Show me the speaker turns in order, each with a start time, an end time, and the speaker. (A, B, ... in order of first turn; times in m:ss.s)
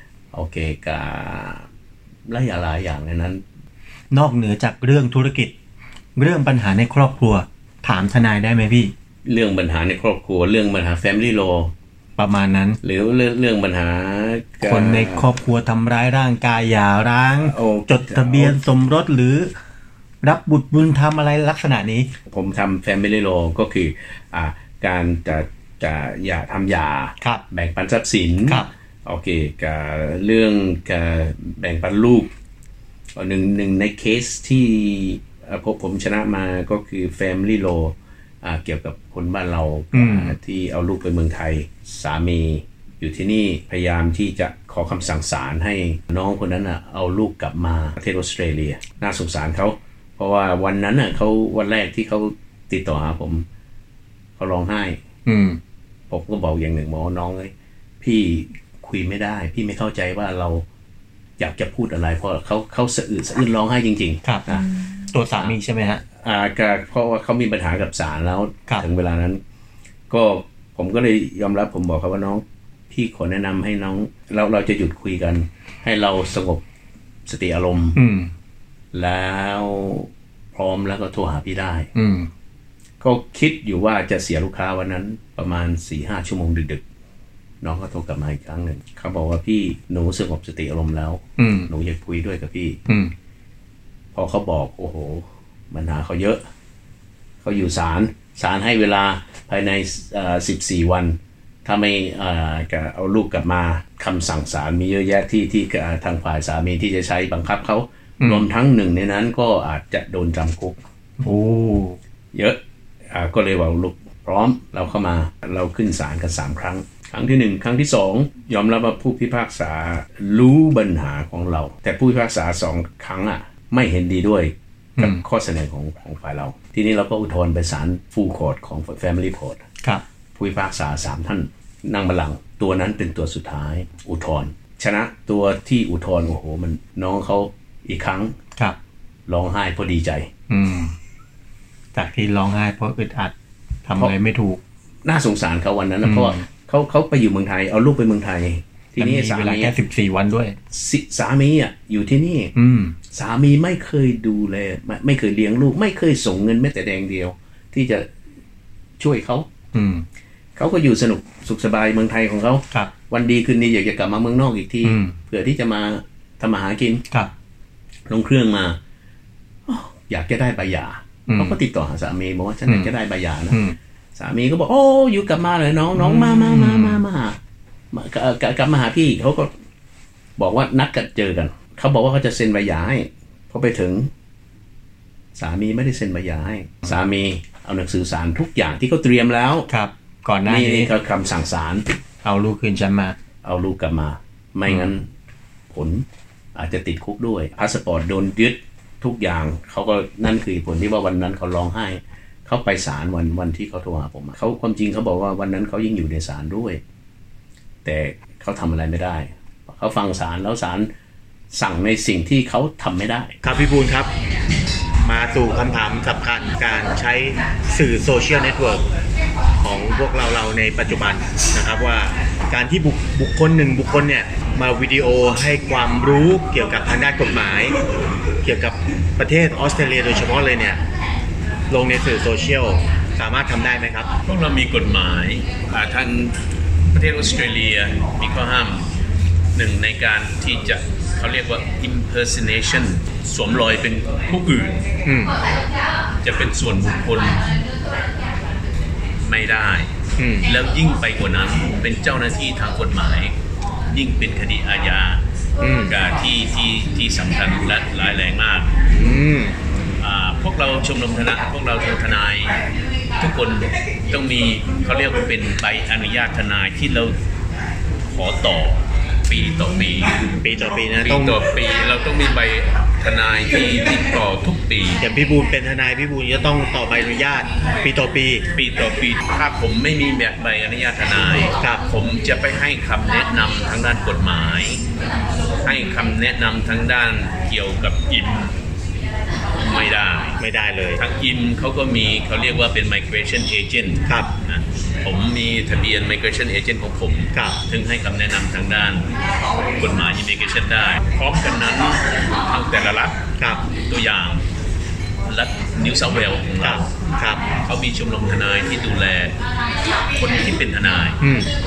0:00.3-0:01.6 A
0:02.3-0:03.4 A
0:04.1-0:05.5 B
0:06.2-0:08.9 B
0:09.2-0:11.7 A
0:12.2-0:12.8 B
0:12.8-0:15.3 A
0:14.6-0:19.5 B
0:17.4-0:18.6 A
0:20.2-0:22.1 B
0:22.2-0:32.3 A
0:33.1-0:53.4 A
0:39.9-0:40.3 B
0:54.4-0:55.0 A
0:55.2-0:55.6 B
0:56.1-1:00.6 A
1:01.4-1:04.6 A
1:04.2-1:06.0 B
1:06.2-1:09.4 A
1:10.1-1:16.6 A
1:17.2-1:18.0 A
1:18.0-1:18.3 B
1:18.9-1:21.9 A
1:21.9-1:22.3 B
1:23.0-1:26.8 A
1:27.6-1:32.8 A
1:31.4-1:31.7 B
1:32.9-1:33.1 B
1:34.1-1:36.4 A
1:37.4-1:50.8 A
1:48.2-1:48.4 B
1:51.2-1:52.0 B
1:52.3-2:09.6 A
2:05.0-2:05.2 B
2:10.3-2:18.3 A
2:19.3-2:20.3 A
2:20.5-2:20.9 B
2:21.9-2:23.3 B
2:23.9-2:24.6 B
2:25.0-2:29.8 A
2:26.0-2:26.4 B
2:29.0-2:30.6 B
2:30.7-2:32.5 A
2:32.5-2:33.0 B
2:33.1-2:38.1 A
2:39.0-2:39.5 A
2:39.7-2:40.0 B
2:40.6-2:47.0 A
2:44.8-2:45.2 B
2:48.1-2:48.8 A
2:49.7-2:53.6 A
2:51.3-2:51.6 B
2:53.5-2:53.8 B
2:54.1-2:57.4 A
2:55.9-2:57.0 B
2:57.9-2:59.5 A
3:00.4-3:04.1 A
3:05.3-3:09.7 A
3:09.7-3:10.9 B
3:10.4-3:11.9 A
3:12.2-3:13.1 B
3:13.4-3:15.1 A
3:15.7-3:26.8 A
3:27.8-3:30.9 A
3:31.5-3:33.4 A
3:33.4-3:34.1 C
3:35.0-3:38.8 C
3:39.6-3:47.8 C
3:48.4-3:50.8 C
3:51.7-3:54.1 C
3:54.2-3:58.9 A
3:59.5-4:04.8 A
4:05.0-4:05.3 C
4:06.2-4:07.5 A
4:09.2-4:09.9 A
4:10.2-4:10.4 C
4:10.4-4:13.4 A
4:13.9-4:15.2 A
4:15.6-4:15.9 C
4:15.9-4:18.7 A
4:18.9-4:19.6 C
4:20.0-4:22.6 A
4:23.2-4:27.2 A
4:28.1-4:30.2 A
4:30.4-4:31.4 C
4:30.9-4:35.0 A
4:35.0-4:38.5 C
4:38.5-4:44.8 A
4:45.6-4:48.5 A
4:49.6-4:50.4 A
4:50.4-4:51.0 C
4:51.0-4:59.1 A
4:54.1-4:54.3 C
4:57.3-4:57.6 C
4:59.8-5:03.2 A
5:03.4-5:03.7 C
5:03.8-5:04.4 A
5:05.3-5:06.9 A
5:06.6-5:07.5 C
5:07.6-5:09.4 A
5:10.1-5:11.2 A
5:11.2-5:11.5 C